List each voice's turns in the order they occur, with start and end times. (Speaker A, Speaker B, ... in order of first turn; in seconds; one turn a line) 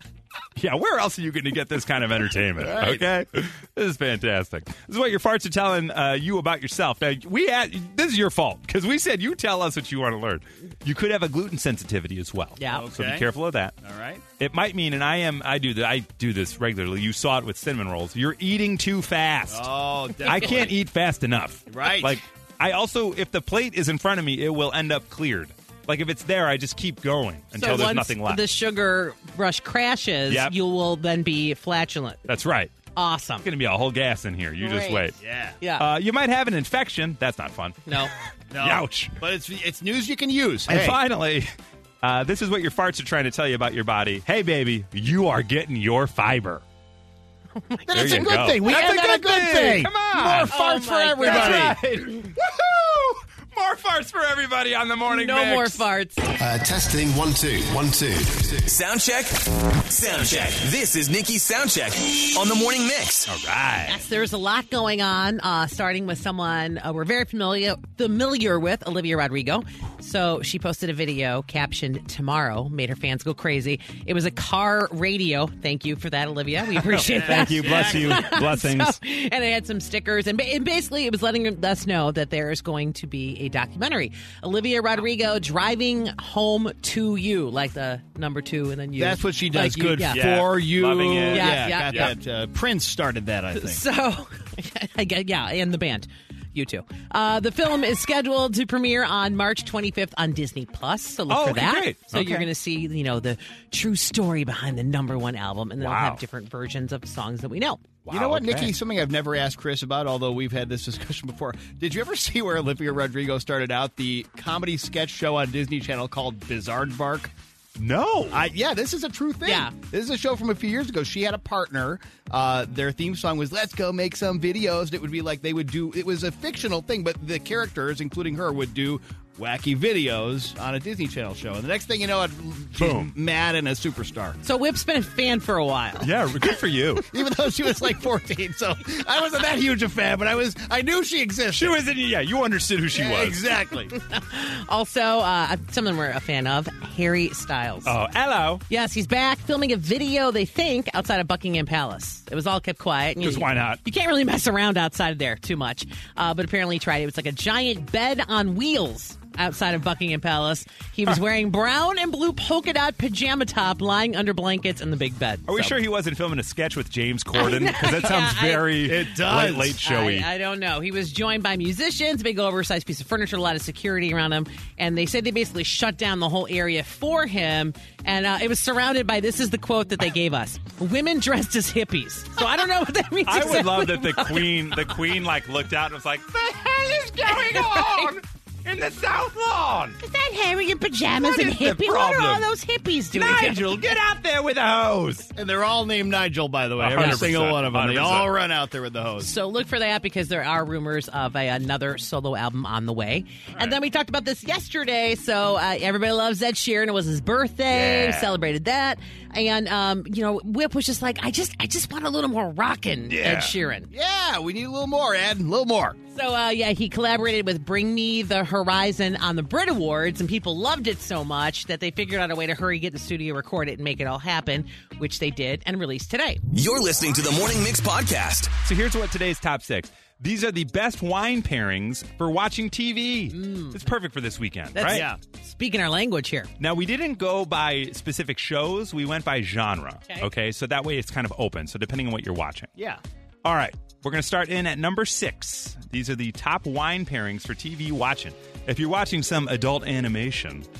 Speaker A: 0.6-13.7
Speaker B: 2.6-3.0
Speaker C: 12.6-12.9
Speaker B: 12.7-13.3
Speaker B: 13.8-14.2
Speaker A: 14.4-19.7
Speaker B: 19.5-20.8
Speaker A: 20.2-28.4
Speaker B: 21.7-22.2
Speaker C: 27.5-32.2
Speaker A: 30.3-30.5
Speaker A: 32.3-32.7
Speaker C: 33.0-33.5
Speaker A: 33.4-35.2
Speaker C: 34.6-35.1
Speaker B: 35.2-35.6
Speaker C: 35.6-35.9
Speaker A: 35.7-38.0
Speaker B: 38.5-41.0
Speaker A: 38.6-39.2
Speaker A: 40.7-41.5
Speaker A: 42.0-46.6
Speaker C: 47.6-48.5
Speaker B: 47.9-51.8
Speaker A: 47.9-50.5
Speaker C: 50.5-51.8
Speaker A: 51.2-55.8
Speaker C: 55.1-56.2
Speaker D: 56.4-58.7
Speaker E: 58.7-63.3
Speaker A: 63.3-64.0
Speaker C: 63.9-90.3
Speaker A: 76.9-79.0
Speaker B: 77.0-78.3
Speaker B: 89.0-93.8
Speaker A: 90.1-92.1
Speaker C: 91.3-92.1
Speaker C: 93.5-107.9
Speaker A: 101.3-102.5
Speaker A: 105.8-106.2
Speaker A: 108.0-108.8
Speaker B: 108.1-117.3
Speaker A: 117.8-118.5
Speaker B: 118.3-134.4
Speaker C: 119.5-119.7
Speaker A: 132.8-133.1
Speaker C: 134.4-136.1
Speaker A: 136.0-137.1
Speaker B: 137.1-141.8
Speaker A: 141.5-143.4
Speaker B: 142.9-143.9
Speaker C: 143.9-147.9
Speaker A: 147.8-148.6
Speaker C: 148.7-165.8
Speaker A: 153.2-153.8
Speaker A: 165.5-170.3
Speaker C: 167.3-168.9
Speaker B: 168.8-169.8
Speaker C: 169.8-184.8
Speaker A: 183.3-190.0
Speaker C: 187.3-188.1
Speaker C: 190.0-193.8
Speaker A: 191.2-192.4
Speaker A: 193.1-195.3
Speaker B: 195.4-199.3
Speaker A: 196.8-198.3
Speaker C: 197.0-197.2
Speaker C: 199.2-213.9
Speaker A: 207.7-208.3
Speaker A: 213.1-213.5
Speaker B: 213.9-216.0
Speaker C: 216.1-226.4
Speaker E: 226.5-228.6
Speaker A: 228.6-235.1
Speaker C: 233.3-233.8
Speaker C: 234.8-236.5
Speaker B: 234.9-235.2
Speaker A: 236.6-242.7
Speaker B: 242.8-243.0
Speaker A: 243.4-250.7